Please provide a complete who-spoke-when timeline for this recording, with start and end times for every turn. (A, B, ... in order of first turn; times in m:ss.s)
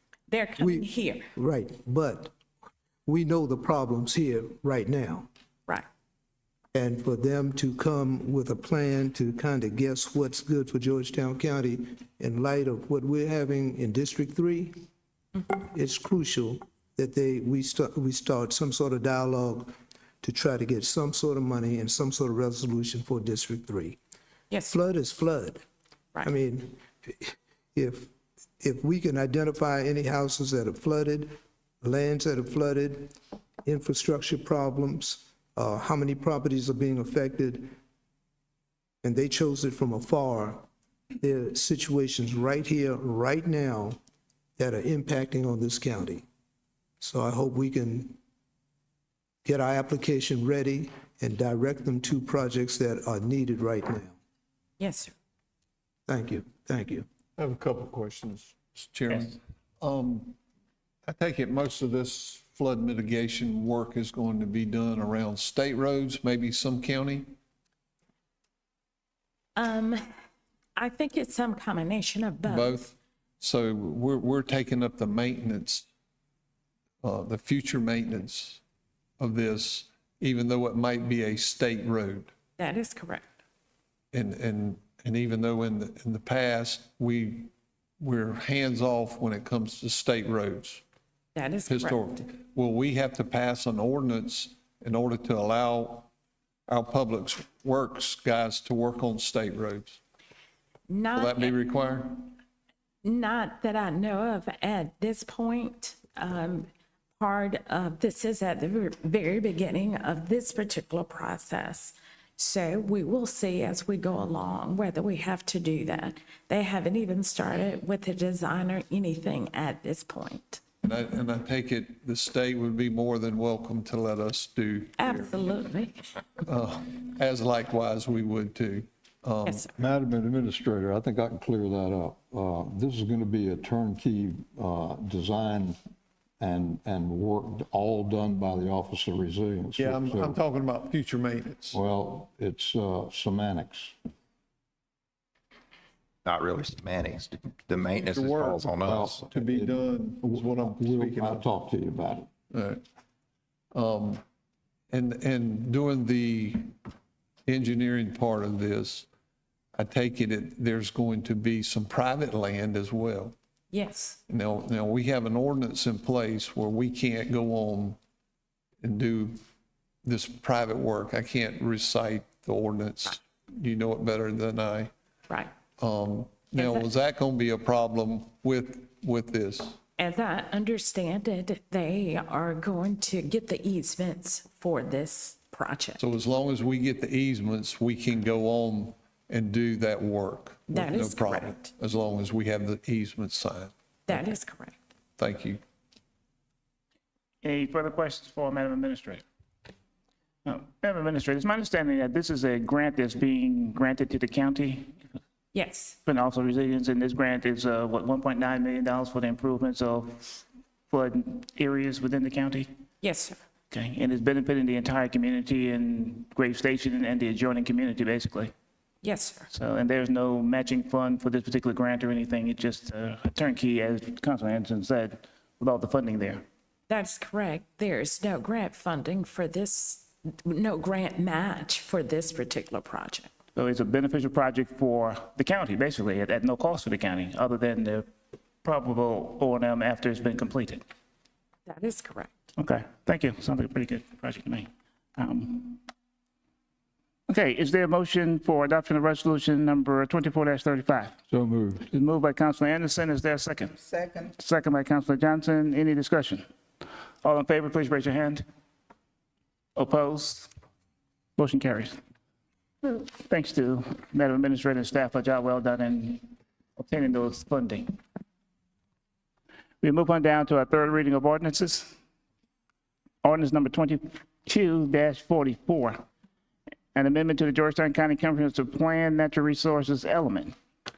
0:00.3-0:01.3 A
0:00.6-0:02.3 B
0:03.0-0:05.3 B
0:06.7-0:14.8 B
0:15.5-0:24.0 B
0:24.5-0:24.8 A
0:24.7-0:25.6 B
0:26.2-0:37.7 B
0:39.0-0:40.6 B
0:41.2-0:44.0 B
0:44.6-0:46.2 B
0:47.0-0:48.2 B
0:49.4-0:54.2 B
0:54.8-0:55.1 A
0:56.1-0:57.0 B
0:57.4-1:00.4 C
1:01.1-1:07.4 C
1:09.6-1:10.0 A
1:10.8-1:12.9 A
1:12.5-1:15.9 C
1:17.0-1:18.6 C
1:19.2-1:22.3 C
1:22.6-1:23.3 A
1:24.1-1:30.8 C
1:31.3-1:32.0 A
1:31.7-1:36.1 C
1:36.7-1:40.0 C
1:40.9-1:41.8 A
1:41.1-1:42.4 C
1:43.0-2:00.6 A
2:00.8-2:05.3 C
2:05.0-2:06.1 A
2:06.4-2:09.7 C
2:09.7-2:15.8 D
2:16.4-2:20.4 D
2:19.8-2:21.8 C
2:21.7-2:23.9 D
2:26.2-2:29.3 E
2:28.1-2:31.4 C
2:28.8-2:32.3 D
2:32.5-2:32.8 C
2:33.7-2:34.2 C
2:34.9-2:36.7 C
2:37.5-2:39.1 C
2:39.7-2:43.4 C
2:43.7-2:44.2 A
2:44.3-2:48.0 C
2:48.8-2:49.4 C
2:50.0-2:54.9 C
2:55.8-2:59.8 C
2:56.5-2:56.9 A
3:00.0-3:06.0 A
3:06.0-3:14.3 C
3:10.7-3:11.7 A
3:14.1-3:14.8 A
3:15.2-3:15.6 C
3:17.4-3:19.2 F
3:20.4-3:24.9 F
3:25.5-3:26.0 A
3:26.0-3:32.7 F
3:33.0-3:33.4 A
3:33.7-3:38.5 F
3:39.0-3:39.5 A
3:39.5-3:46.4 F
3:46.9-3:53.3 A
3:53.6-3:58.1 F
3:58.6-4:00.8 F
4:01.6-4:02.3 A
4:02.6-4:05.8 F
4:07.3-4:11.1 F
4:11.3-4:11.8 D
4:11.9-4:13.8 F
4:14.4-4:16.4 F
4:17.2-4:18.4 F
4:19.8-4:20.5 F
4:21.4-4:22.0 F
4:22.8-4:28.0 F
4:29.8-4:31.9 F
4:33.2-4:36.0 F
4:36.9-4:40.5 F